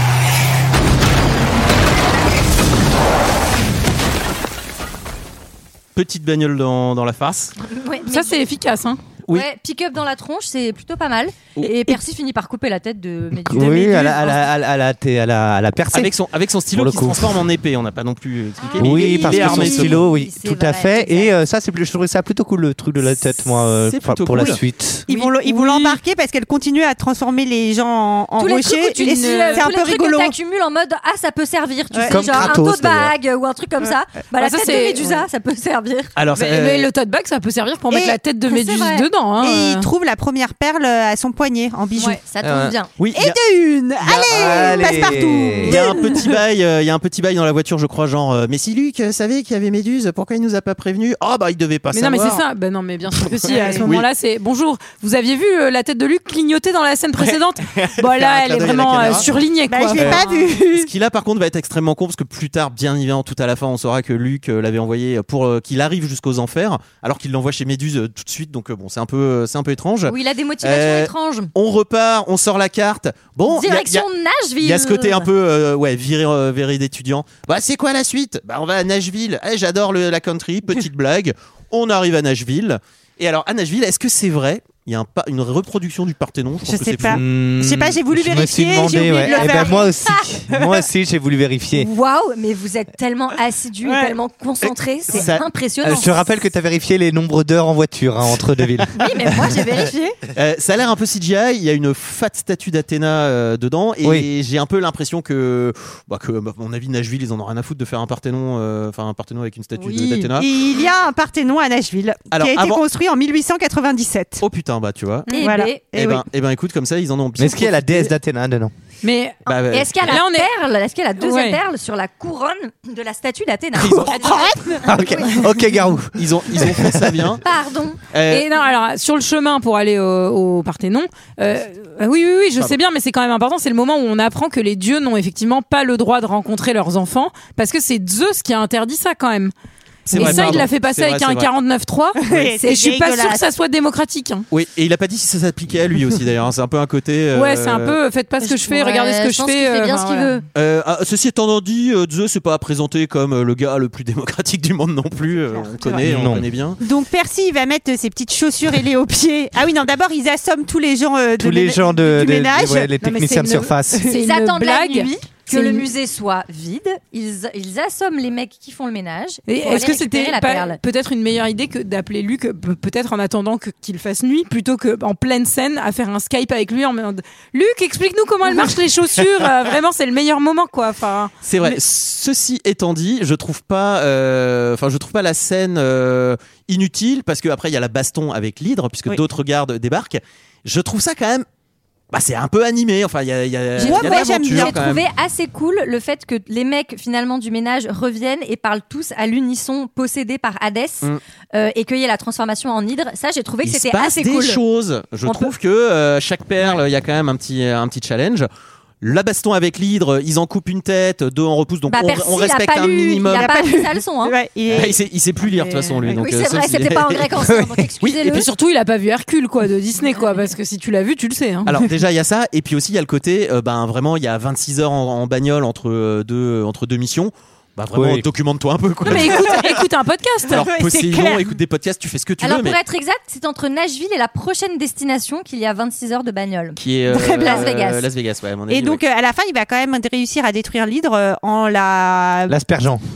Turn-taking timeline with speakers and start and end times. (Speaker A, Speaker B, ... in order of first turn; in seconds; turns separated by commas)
Speaker A: 6.0-7.5, Speaker B: 7.7-8.4, Speaker C: 8.1-9.0, Speaker B: 9.3-14.4, Speaker D: 13.3-16.1, Speaker A: 15.9-20.0, Speaker D: 16.7-17.4, Speaker B: 18.6-21.3, Speaker D: 18.8-25.1, Speaker A: 23.7-24.6, Speaker E: 25.1-30.4, Speaker C: 25.1-26.0, Speaker B: 28.4-36.1, Speaker C: 28.9-29.7, Speaker E: 31.9-32.5, Speaker D: 32.1-33.1, Speaker C: 34.4-35.3, Speaker A: 36.1-36.9, Speaker C: 36.4-39.9, Speaker E: 37.9-38.2, Speaker B: 38.5-39.1, Speaker E: 39.4-42.2, Speaker B: 42.0-42.9, Speaker D: 42.4-42.8, Speaker A: 43.0-43.4, Speaker E: 43.1-46.3, Speaker A: 44.0-45.0, Speaker D: 44.2-45.9, Speaker A: 45.6-52.4, Speaker C: 51.9-60.5, Speaker E: 53.5-53.9, Speaker A: 57.2-59.3, Speaker E: 59.7-60.9, Speaker A: 59.9-74.1, Speaker B: 70.1-71.5, Speaker B: 73.5-75.3, Speaker A: 74.6-87.2, Speaker E: 86.7-89.9, Speaker D: 87.1-91.9, Speaker B: 89.1-90.4, Speaker B: 91.7-96.5, Speaker E: 93.8-94.2, Speaker A: 95.1-95.4, Speaker D: 95.8-99.6, Speaker B: 99.0-100.2, Speaker A: 100.3-110.5, Speaker E: 110.4-114.4, Speaker A: 112.3-112.8, Speaker A: 114.4-115.3, Speaker B: 115.3-115.8, Speaker E: 115.4-116.2, Speaker A: 115.9-118.1, Speaker D: 117.4-118.7, Speaker C: 119.0-119.4, Speaker A: 119.5-120.0, Speaker B: 119.7-125.5, Speaker C: 120.0-120.5, Speaker C: 121.2-121.6, Speaker A: 123.8-124.6, Speaker E: 124.1-124.8, Speaker D: 124.8-127.1, Speaker A: 126.2-127.4, Speaker B: 127.4-128.5, Speaker A: 128.1-128.5, Speaker C: 128.4-139.5, Speaker A: 140.1-141.5, Speaker C: 140.1-144.5, Speaker E: 142.2-143.4, Speaker A: 144.5-147.9, Speaker C: 147.3-150.4, Speaker B: 148.4-150.4, Speaker A: 150.5-156.8, Speaker D: 156.0-156.5, Speaker E: 156.8-162.9, Speaker D: 161.4-164.0, Speaker C: 163.0-165.9, Speaker B: 164.1-170.8, Speaker C: 169.5-181.8, Speaker A: 181.4-191.5, Speaker A: 192.1-195.0, Speaker E: 193.8-194.8, Speaker B: 193.8-204.6, Speaker A: 203.6-208.5, Speaker B: 205.3-205.5, Speaker A: 209.0-213.5, Speaker B: 211.9-214.9, Speaker E: 213.3-215.0, Speaker A: 214.7-218.5, Speaker E: 215.6-216.2, Speaker B: 216.0-218.5, Speaker C: 218.3-221.7, Speaker A: 221.7-229.8, Speaker D: 227.9-228.3, Speaker C: 229.1-230.7, Speaker A: 230.5-232.8, Speaker E: 230.5-231.5, Speaker B: 232.4-238.1, Speaker A: 236.8-239.0, Speaker E: 237.2-237.7, Speaker E: 238.7-242.6, Speaker D: 242.5-243.0